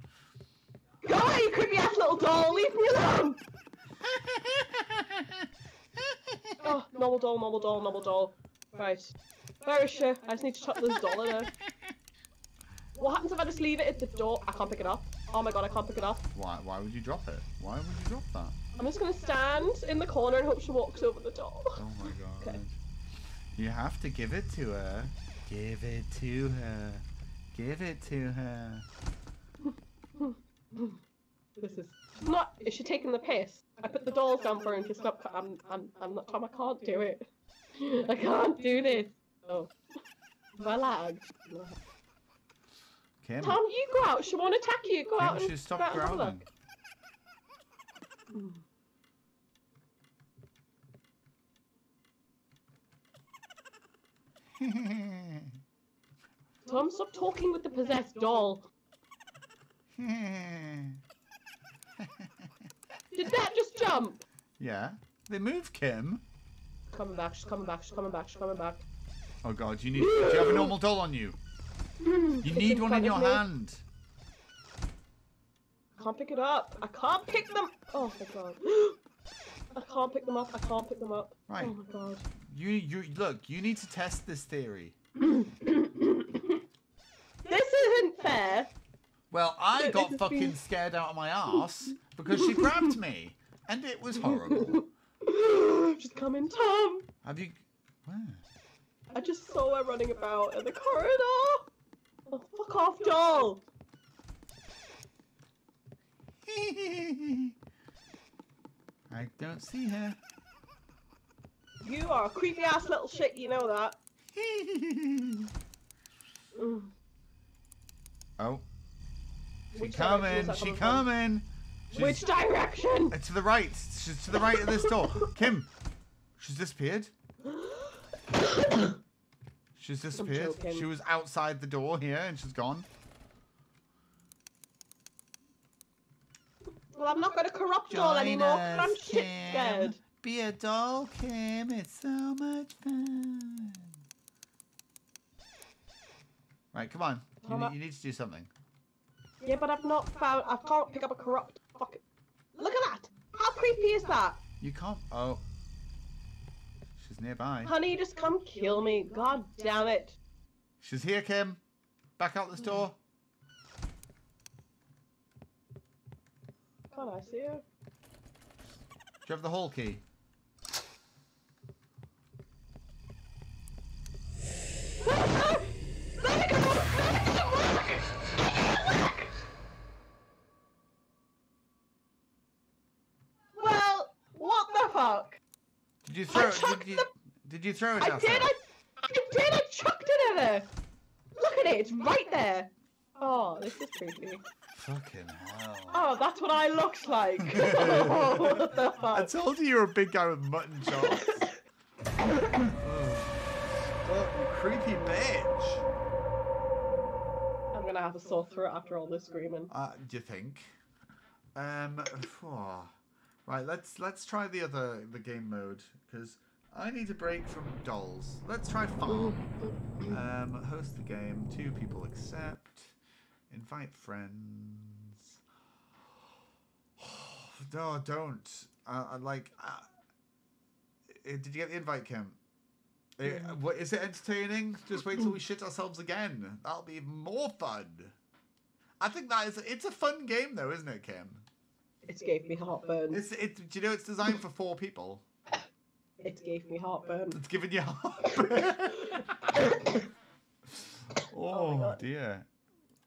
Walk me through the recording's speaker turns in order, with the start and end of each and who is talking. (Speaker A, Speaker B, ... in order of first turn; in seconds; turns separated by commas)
Speaker A: 1.0-3.4, Speaker B: 4.1-5.5, Speaker B: 6.1-6.6, Speaker A: 6.6-11.5, Speaker A: 12.9-16.2, Speaker B: 16.3-18.6, Speaker A: 18.8-21.8, Speaker B: 21.8-22.8, Speaker B: 23.5-28.8, Speaker A: 29.6-31.0, Speaker A: 31.6-39.7, Speaker A: 40.5-41.8, Speaker B: 43.2-43.6, Speaker A: 43.4-46.4, Speaker B: 45.2-46.5, Speaker A: 48.3-48.6, Speaker B: 54.5-55.6, Speaker A: 56.6-58.6, Speaker B: 59.9-61.0, Speaker B: 62.0-62.5, Speaker A: 63.1-64.2, Speaker B: 64.6-66.2, Speaker A: 66.9-68.8, Speaker B: 69.4-71.4, Speaker A: 70.0-70.7, Speaker A: 72.0-73.4, Speaker B: 72.4-73.8, Speaker A: 76.0-79.0, Speaker A: 79.7-82.2, Speaker B: 81.5-81.7, Speaker B: 82.4-85.0, Speaker A: 85.2-86.6, Speaker A: 87.4-88.7, Speaker B: 89.3-94.8, Speaker A: 89.8-90.5, Speaker A: 92.3-92.9, Speaker A: 94.2-97.1, Speaker B: 97.2-98.4, Speaker A: 99.1-101.7, Speaker A: 102.3-103.6, Speaker B: 106.4-107.5, Speaker B: 109.1-110.2, Speaker A: 111.8-114.0, Speaker B: 114.3-115.5, Speaker A: 116.5-116.9, Speaker B: 118.4-118.6, Speaker A: 119.7-121.0, Speaker B: 119.8-122.2, Speaker A: 121.9-123.1, Speaker B: 123.1-125.7, Speaker A: 124.3-125.3, Speaker B: 126.4-127.1, Speaker A: 127.4-129.0, Speaker B: 129.8-132.9, Speaker A: 130.2-130.8, Speaker A: 136.9-140.0, Speaker B: 137.9-143.9, Speaker B: 146.7-148.5, Speaker A: 147.4-147.7, Speaker A: 149.4-152.0, Speaker A: 152.5-154.4, Speaker B: 154.6-155.4, Speaker B: 157.0-157.7, Speaker A: 157.6-160.2, Speaker B: 160.8-161.6, Speaker B: 162.2-163.0, Speaker A: 166.9-167.6, Speaker B: 169.2-170.0, Speaker A: 175.0-179.3, Speaker A: 183.5-185.4, Speaker B: 186.0-188.5, Speaker A: 186.3-187.1, Speaker A: 188.0-190.7, Speaker A: 191.3-194.4, Speaker B: 194.7-196.1, Speaker A: 195.9-199.3, Speaker B: 197.4-201.5, Speaker A: 200.9-201.6, Speaker B: 202.3-203.4, Speaker B: 204.0-205.8, Speaker A: 207.7-209.7, Speaker B: 209.7-210.7, Speaker B: 211.5-212.9, Speaker B: 213.4-222.9, Speaker A: 219.1-219.3, Speaker B: 223.5-225.2, Speaker B: 227.0-229.9, Speaker B: 231.1-232.4, Speaker B: 233.2-238.1, Speaker A: 233.3-233.6, Speaker B: 239.0-241.4, Speaker A: 242.0-243.2, Speaker B: 243.1-245.2, Speaker A: 246.2-247.4, Speaker B: 247.3-249.7, Speaker A: 248.2-250.0, Speaker B: 250.7-252.5, Speaker A: 251.5-252.0